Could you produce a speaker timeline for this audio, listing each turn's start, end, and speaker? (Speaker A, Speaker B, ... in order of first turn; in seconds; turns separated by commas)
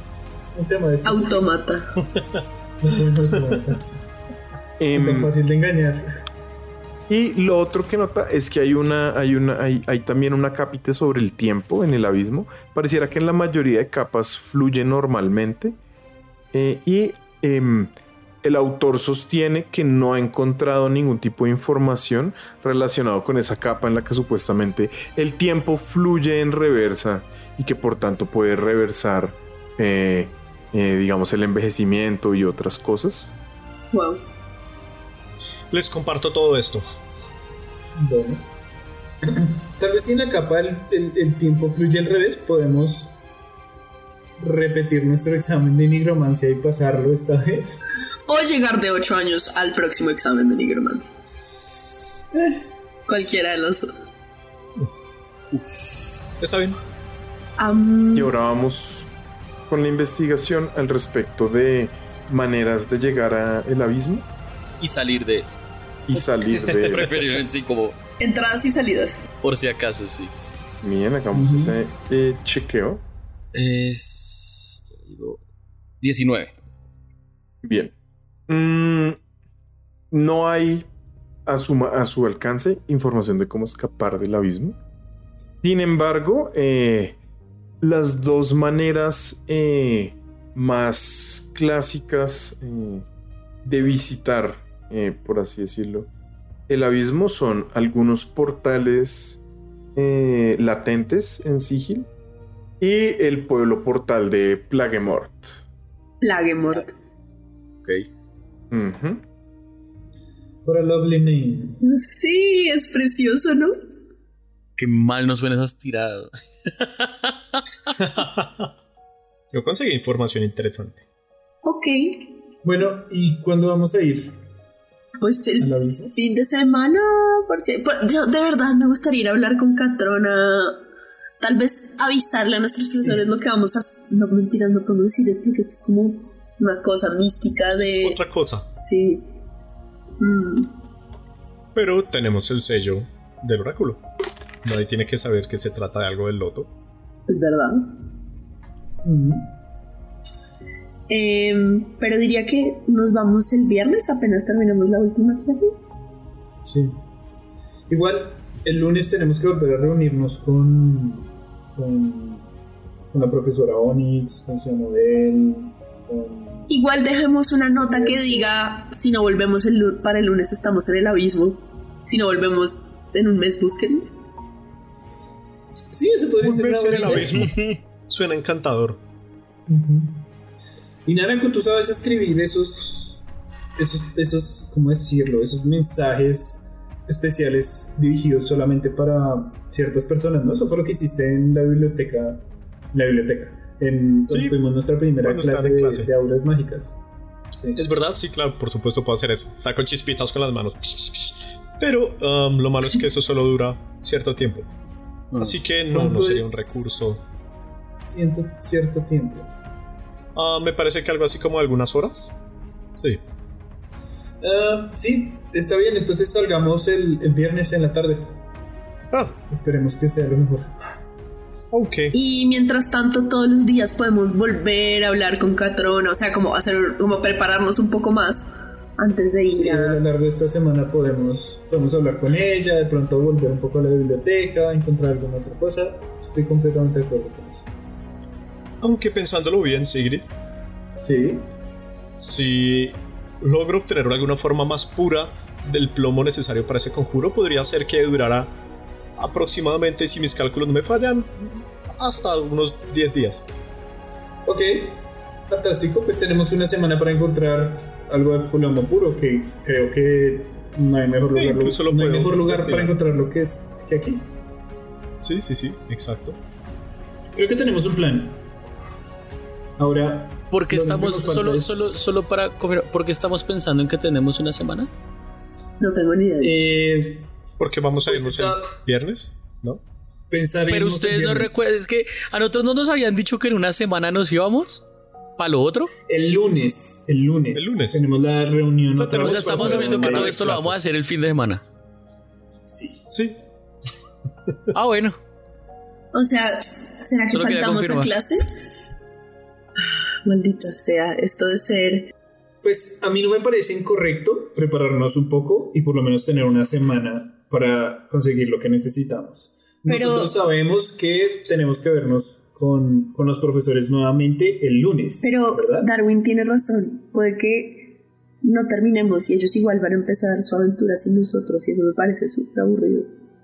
Speaker A: 0.5-1.5, Speaker B: 1.0-1.9, Speaker C: 2.1-2.4, Speaker A: 2.8-3.9, Speaker D: 4.8-5.3, Speaker A: 5.0-6.0, Speaker D: 7.1-15.8, Speaker D: 16.5-33.4, Speaker B: 33.9-34.2, Speaker C: 35.7-36.9, Speaker A: 38.0-38.5, Speaker A: 39.2-43.1, Speaker A: 44.4-47.8, Speaker B: 48.3-51.1, Speaker A: 52.3-52.6, Speaker B: 53.1-53.9, Speaker E: 55.5-55.9, Speaker C: 56.4-56.8, Speaker B: 57.6-58.3, Speaker D: 58.1-59.1, Speaker D: 59.7-64.3, Speaker E: 64.8-65.5, Speaker D: 66.1-67.1, Speaker C: 66.7-67.0, Speaker E: 66.8-68.0, Speaker B: 68.2-69.3, Speaker E: 69.4-70.3, Speaker D: 70.8-73.0, Speaker A: 71.3-71.8, Speaker E: 73.5-75.4, Speaker E: 76.0-76.5, Speaker D: 77.6-77.9, Speaker D: 78.5-79.2, Speaker D: 80.1-80.9, Speaker D: 81.5-84.8, Speaker D: 85.6-87.2, Speaker D: 87.8-93.1, Speaker D: 93.6-96.1, Speaker D: 96.7-99.4, Speaker D: 100.0-102.1, Speaker D: 102.8-105.6, Speaker B: 106.2-106.9, Speaker D: 108.7-109.2, Speaker A: 110.7-111.8, Speaker B: 111.8-113.7, Speaker E: 114.8-117.6, Speaker C: 118.0-118.7, Speaker C: 119.5-121.0, Speaker B: 121.6-122.3, Speaker A: 122.6-124.3, Speaker B: 125.2-130.8, Speaker A: 125.6-126.1, Speaker B: 131.4-139.3, Speaker A: 132.9-133.2, Speaker C: 137.9-138.7, Speaker B: 140.2-140.7, Speaker C: 141.7-144.0, Speaker C: 144.6-146.7, Speaker B: 147.3-147.9, Speaker A: 149.0-149.5, Speaker B: 151.1-155.7, Speaker A: 156.6-157.0, Speaker A: 157.9-162.5, Speaker A: 163.1-166.7, Speaker B: 166.7-174.1, Speaker A: 167.7-168.5, Speaker A: 175.9-177.5, Speaker C: 176.4-179.0, Speaker E: 177.2-177.8, Speaker A: 179.7-180.2, Speaker A: 181.1-183.2, Speaker A: 183.8-197.0, Speaker C: 194.3-194.6, Speaker C: 195.2-196.1, Speaker A: 197.5-197.8, Speaker C: 197.8-204.7, Speaker C: 205.3-207.2, Speaker A: 205.9-207.1, Speaker A: 207.9-209.5, Speaker C: 210.3-212.3, Speaker A: 214.4-218.4, Speaker C: 219.1-219.4, Speaker A: 219.5-220.7, Speaker C: 221.7-222.2, Speaker B: 222.1-230.0, Speaker A: 229.5-237.7, Speaker C: 238.8-240.3, Speaker A: 241.0-241.5, Speaker C: 242.2-248.6, Speaker C: 249.2-253.4, Speaker A: 254.5-264.3, Speaker C: 261.3-262.9, Speaker C: 265.2-266.4, Speaker A: 267.3-268.4, Speaker A: 269.8-272.0, Speaker E: 270.5-274.9, Speaker B: 275.8-276.6, Speaker A: 276.4-277.3, Speaker C: 277.6-279.8, Speaker A: 278.1-278.8, Speaker A: 280.3-281.6, Speaker E: 280.7-284.8, Speaker E: 285.4-285.9, Speaker A: 286.1-290.8, Speaker C: 287.5-288.0, Speaker C: 288.9-290.7, Speaker E: 289.2-291.6, Speaker A: 292.7-293.0, Speaker C: 293.1-293.4, Speaker E: 294.7-295.2, Speaker B: 296.1-298.4, Speaker E: 297.3-298.1, Speaker B: 299.8-302.1, Speaker A: 302.6-315.9, Speaker B: 309.9-310.4, Speaker B: 315.2-317.9, Speaker B: 318.4-323.1